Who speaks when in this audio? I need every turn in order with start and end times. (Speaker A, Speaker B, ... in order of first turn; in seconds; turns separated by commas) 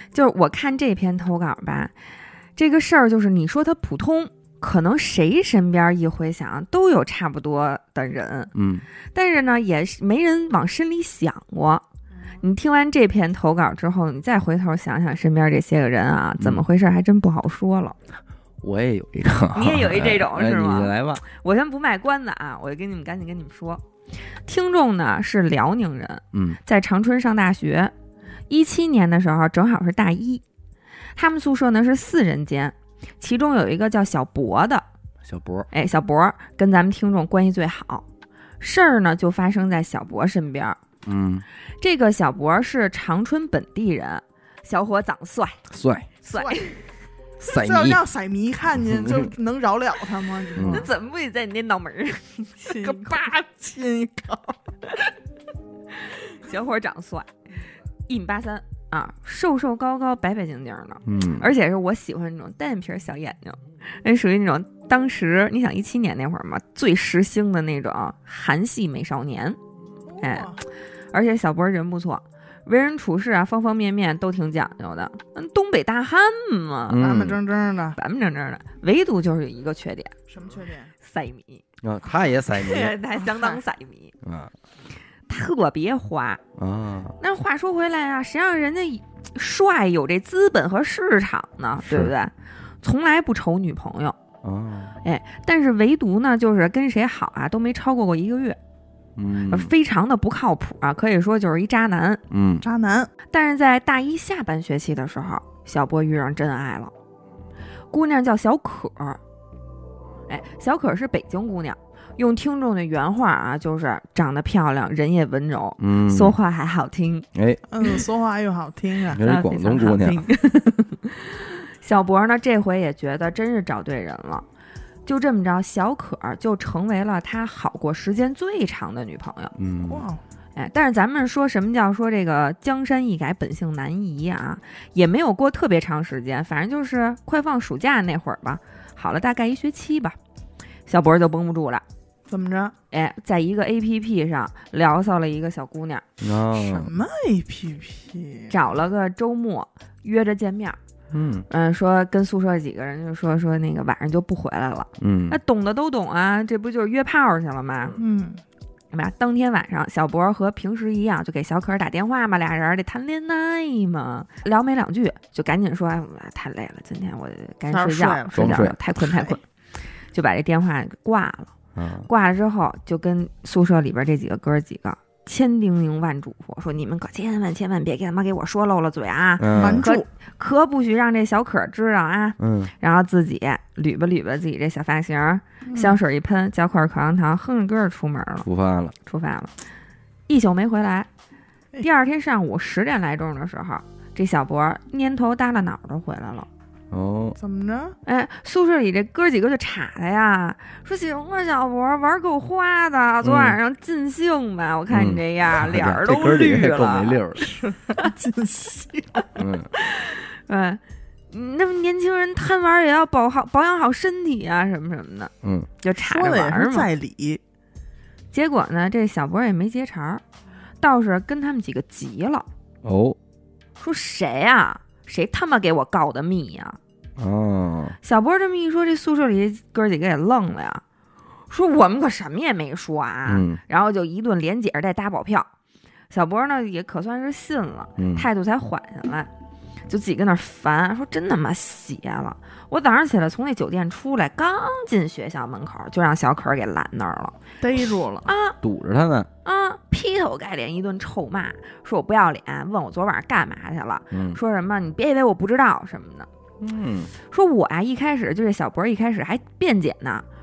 Speaker A: 0.1-1.9, Speaker A: 2.5-8.5, Speaker B: 8.5-8.8, Speaker A: 9.1-11.8, Speaker A: 12.4-17.9, Speaker B: 18.6-21.2, Speaker A: 19.5-23.8, Speaker A: 24.4-27.9, Speaker B: 26.3-26.6, Speaker A: 28.5-30.4, Speaker A: 31.1-34.8, Speaker B: 35.2-35.7, Speaker A: 35.7-38.0, Speaker A: 38.6-40.8, Speaker B: 41.0-41.4, Speaker A: 41.8-45.6, Speaker B: 45.7-46.1, Speaker A: 46.2-46.8, Speaker C: 46.3-46.8, Speaker B: 47.4-48.0, Speaker C: 47.5-50.9, Speaker B: 48.9-49.3, Speaker B: 50.5-50.9, Speaker A: 50.6-53.2, Speaker C: 52.6-54.6, Speaker A: 55.9-57.3, Speaker A: 58.1-69.6, Speaker B: 61.0-61.5, Speaker C: 70.1-70.6, Speaker A: 70.2-77.0, Speaker B: 76.9-77.4, Speaker C: 77.0-78.0, Speaker A: 78.0-80.1, Speaker C: 80.3-80.9, Speaker A: 81.0-81.6, Speaker B: 81.8-82.9, Speaker A: 82.5-84.2, Speaker B: 84.2-84.5, Speaker A: 85.3-86.4, Speaker B: 86.6-87.2, Speaker A: 87.2-94.2, Speaker B: 91.8-92.1, Speaker B: 94.4-95.0, Speaker A: 95.0-98.6, Speaker B: 99.2-99.7, Speaker A: 99.5-102.2, Speaker B: 102.3-102.6, Speaker C: 102.6-103.1, Speaker A: 103.3-106.9, Speaker A: 107.9-109.2, Speaker A: 110.3-117.3, Speaker B: 115.8-116.4, Speaker B: 117.3-117.6, Speaker C: 117.7-119.2, Speaker B: 119.1-120.3, Speaker A: 119.2-124.4, Speaker A: 125.0-129.5, Speaker B: 129.6-130.0, Speaker C: 129.8-130.2, Speaker A: 130.6-140.2, Speaker A: 140.9-141.8, Speaker C: 142.3-142.7, Speaker A: 142.9-146.0, Speaker B: 146.2-146.9, Speaker C: 146.5-148.5, Speaker A: 148.5-150.8, Speaker B: 151.1-151.5, Speaker A: 151.5-158.0, Speaker B: 155.0-155.4, Speaker C: 158.0-158.4, Speaker A: 158.9-169.4, Speaker C: 167.7-169.4, Speaker B: 168.3-168.7, Speaker A: 170.1-171.5, Speaker B: 171.8-172.1, Speaker A: 172.1-188.5, Speaker B: 179.4-179.8, Speaker C: 179.5-180.1, Speaker B: 182.4-182.7, Speaker C: 185.7-186.0, Speaker B: 188.4-188.9, Speaker A: 189.0-189.5, Speaker A: 190.3-191.1, Speaker A: 191.8-196.5, Speaker B: 196.9-197.4, Speaker C: 197.4-198.0, Speaker A: 198.0-207.2, Speaker B: 203.2-203.6, Speaker B: 204.9-207.6, Speaker C: 207.4-209.2, Speaker B: 209.3-209.7, Speaker A: 209.8-216.9, Speaker B: 215.4-215.7, Speaker C: 216.0-217.4, Speaker A: 218.3-220.2, Speaker A: 220.8-222.4, Speaker B: 222.8-223.2, Speaker A: 223.8-226.8, Speaker B: 227.2-228.0, Speaker A: 228.0-230.8, Speaker A: 231.5-235.5, Speaker B: 233.2-233.6, Speaker A: 236.1-239.3, Speaker B: 238.0-238.3, Speaker A: 239.9-247.4, Speaker C: 247.6-248.3, Speaker A: 248.2-248.6, Speaker B: 248.6-249.3, Speaker A: 249.4-256.3, Speaker B: 254.1-254.4, Speaker B: 256.6-257.1, Speaker A: 257.2-260.2